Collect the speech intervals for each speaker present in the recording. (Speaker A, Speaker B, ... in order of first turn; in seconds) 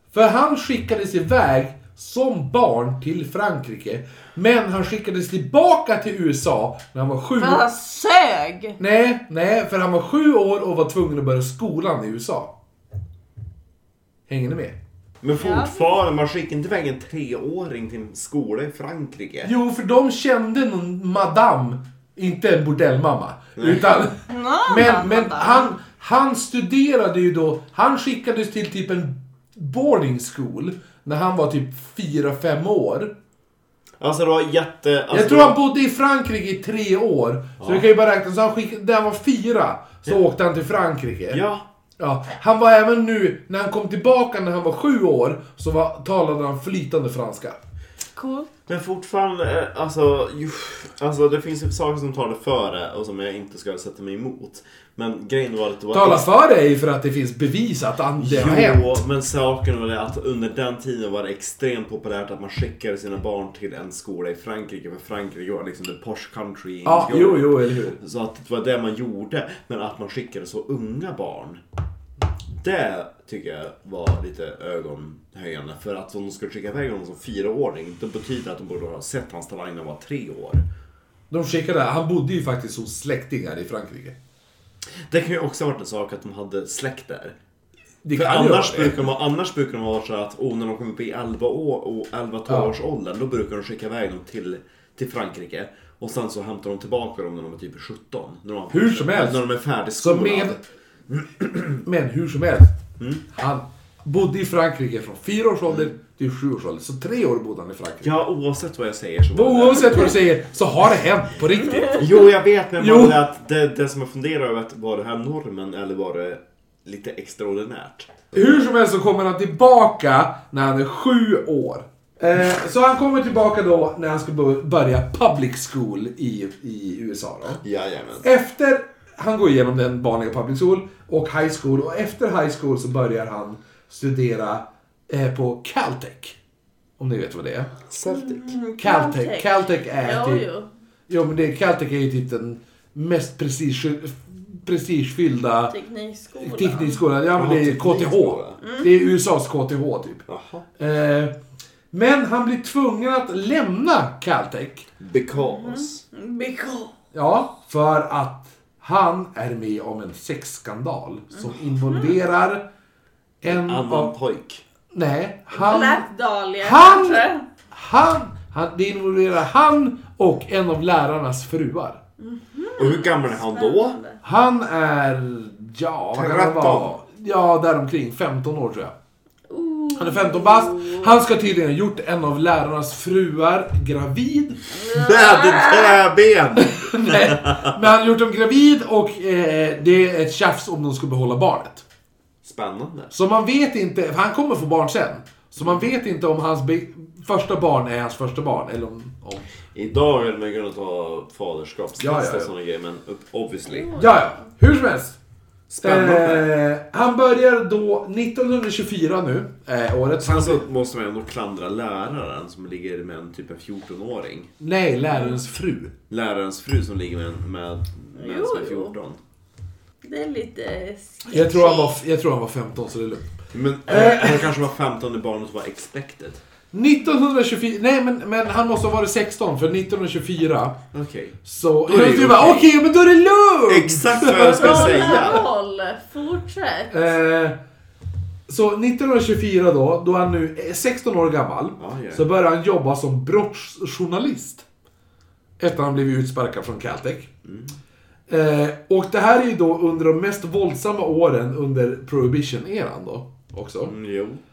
Speaker A: 0.1-7.7, 8.8-12.5, 14.3-14.8, 19.4-33.1, 35.1-41.4, 42.0-47.6, 55.9-58.9, 66.8-68.0, 81.3-84.2, 88.0-89.0, 92.5-92.7, 98.7-99.4, 100.0-100.6, 101.8-102.8, 103.3-108.2, 109.3-112.2, 112.8-113.2, 118.3-127.6, 128.2-136.4, 137.0-137.7, 138.8-140.5, 141.1-145.8, 146.4-150.2, 150.8-151.3, 151.9-154.9, 157.1-162.7, 163.4-164.1, 164.9-166.1, 166.6-172.0, 174.2-178.9, 180.0-184.6, 186.6-191.8, 193.1-199.5, 202.0-202.5, 204.0-205.2, 205.8-210.7, 214.6-215.9, 221.3-224.5, 226.7-230.8, 231.4-235.4, 236.9-237.6, 238.5-244.7, 245.6-247.3, 248.3-253.9
Speaker B: 7.4-8.8, 15.3-15.9, 24.3-25.7, 48.2-48.5, 138.1-140.7, 145.7-147.0, 148.6-148.9, 155.3-156.9, 161.4-162.1, 165.5-167.4, 172.2-174.2, 179.5-181.2, 184.7-186.0, 203.7-204.3, 215.1-215.4, 218.2-219.0, 220.0-221.9, 223.9-224.3, 234.3-237.1
Speaker C: 15.2-19.5, 23.6-24.0, 34.0-35.6, 37.6-37.9, 41.3-41.7, 48.7-56.3, 58.2-71.6, 72.6-80.7, 85.1-87.4, 88.2-100.6, 101.1-101.8, 103.0-103.2, 108.0-110.2, 111.9-118.6, 127.6-128.3, 137.9-138.6, 147.3-148.6, 150.3-150.6, 155.0-156.0, 163.5-164.6, 172.8-174.0, 176.1-176.9, 184.9-187.8, 192.4-193.1, 199.8-203.9, 205.7-206.5, 210.2-214.5, 216.1-219.2, 223.5-226.4, 230.9-232.7, 233.7-235.4, 241.8-242.3, 247.4-247.8, 253.8-254.4